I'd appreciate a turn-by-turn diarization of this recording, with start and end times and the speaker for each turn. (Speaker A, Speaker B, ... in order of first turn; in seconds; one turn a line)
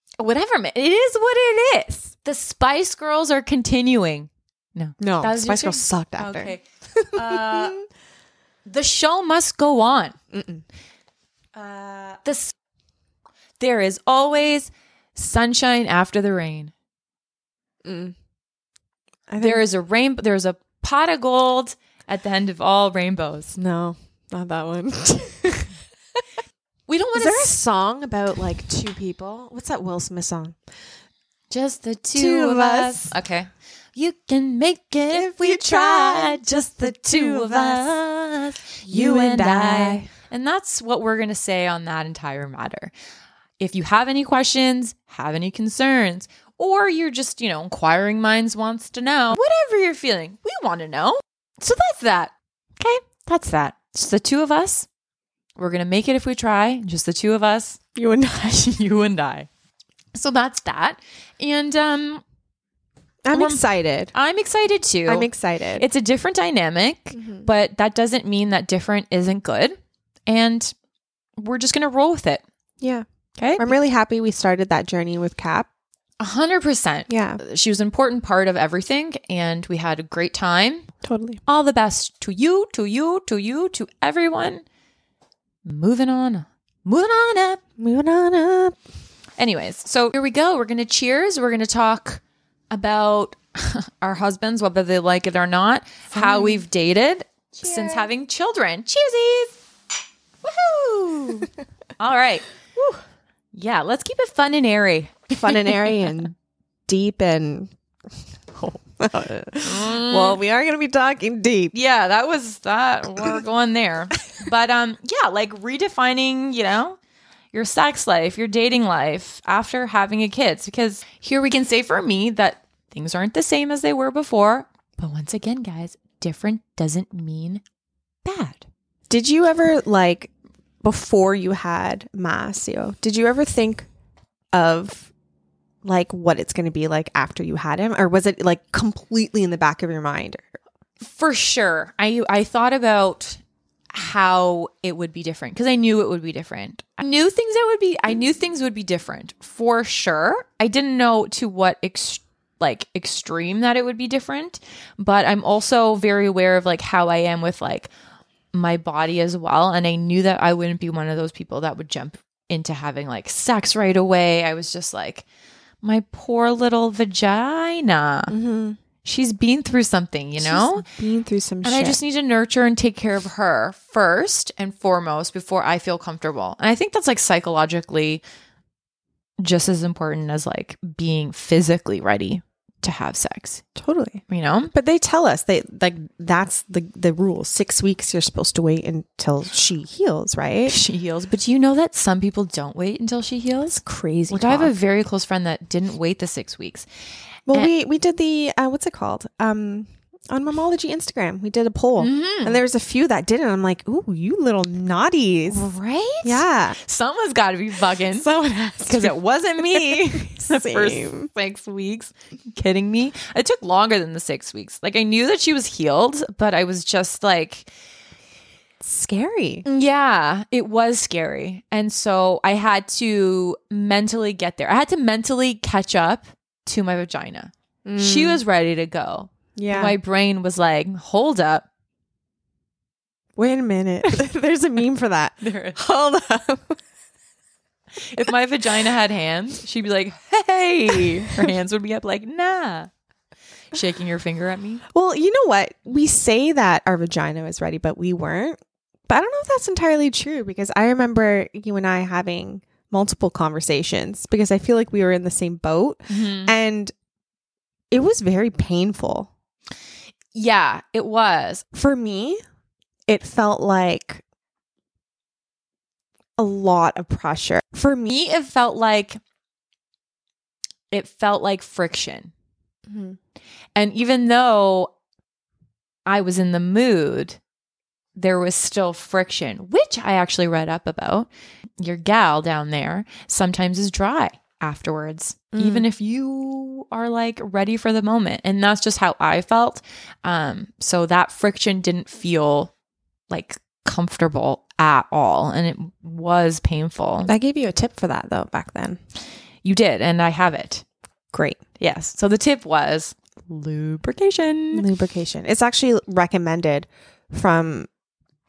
Speaker A: 0.2-7.8
Speaker B: 5.0-7.8
Speaker A: 8.7-10.2
Speaker B: 10.3-10.6
Speaker A: 11.6-12.5
Speaker A: 13.6-16.7
Speaker B: 17.8-18.1
Speaker B: 19.3-19.6
Speaker A: 19.4-23.6
Speaker B: 23.6-25.8
Speaker A: 26.9-27.6
Speaker B: 27.1-30.7
Speaker A: 31.5-42.9
Speaker B: 32.2-33.1
Speaker B: 35.1-38.0
Speaker B: 38.8-40.1
Speaker A: 43.6-54.9
Speaker A: 55.6-57.8
Speaker B: 58.0-58.8
Speaker A: 58.6-59.5
Speaker A: 60.1-62.2
Speaker B: 63.2-64.1
Speaker A: 63.3-70.7
Speaker B: 65.1-65.8
Speaker B: 67.2-67.5
Speaker A: 71.4-72.4
Speaker A: 73.4-73.7
Speaker B: 73.6-75.7
Speaker A: 76.2-80.9
Speaker B: 77.1-77.4
Speaker B: 81.0-81.4
Speaker A: 81.5-84.6
Speaker A: 85.7-87.6
Speaker B: 87.8-88.8
Speaker A: 89.4-99.6
Speaker B: 96.1-96.6
Speaker B: 97.6-98.1
Speaker A: 100.5-102.5
Speaker A: 103.5-105.9
Speaker B: 105.3-106.3
Speaker B: 106.9-107.7
Speaker B: 108.5-111.7
Speaker A: 109.6-110.4
Speaker A: 111.7-117.0
Speaker A: 117.5-127.6
Speaker A: 128.2-128.6
Speaker B: 129.1-130.3
Speaker B: 130.8-133.9
Speaker B: 134.5-135.1
Speaker B: 135.8-140.6
Speaker A: 141.0-157.9
Speaker A: 158.5-165.2
Speaker A: 165.8-168.3
Speaker B: 168.3-168.8
Speaker A: 169.0-170.8
Speaker B: 170.4-172.0
Speaker A: 171.6-178.2
Speaker A: 179.4-183.7
Speaker B: 183.8-190.8
Speaker A: 184.3-184.7
Speaker A: 190.7-196.9
Speaker B: 193.8-194.7
Speaker B: 197.5-205.6
Speaker A: 202.0-202.6
Speaker A: 205.5-208.3
Speaker B: 206.2-206.8
Speaker B: 208.1-211.3
Speaker A: 208.8-217.7
Speaker B: 218.8-219.7
Speaker A: 219.7-231.7
Speaker B: 227.8-228.4
Speaker B: 229.6-229.9
Speaker B: 233.4-236.8
Speaker A: 235.4-235.8
Speaker A: 238.0-242.9
Speaker B: 240.9-241.5
Speaker A: 243.7-244.8
Speaker B: 244.9-256.9
Speaker A: 256.1-256.6
Speaker B: 257.9-259.3
Speaker A: 260.3-261.6
Speaker B: 261.7-262.4
Speaker B: 263.1-264.2
Speaker B: 266.4-268.2
Speaker A: 268.1-269.2
Speaker A: 270.9-272.3
Speaker B: 272.9-273.2
Speaker A: 273.8-274.9
Speaker A: 276.1-277.4
Speaker A: 278.2-281.3
Speaker A: 281.8-292.7
Speaker B: 285.5-285.9
Speaker A: 293.3-297.3
Speaker B: 297.3-299.0
Speaker A: 299.6-300.8
Speaker B: 301.3-301.6
Speaker A: 301.8-304.9
Speaker B: 304.7-307.9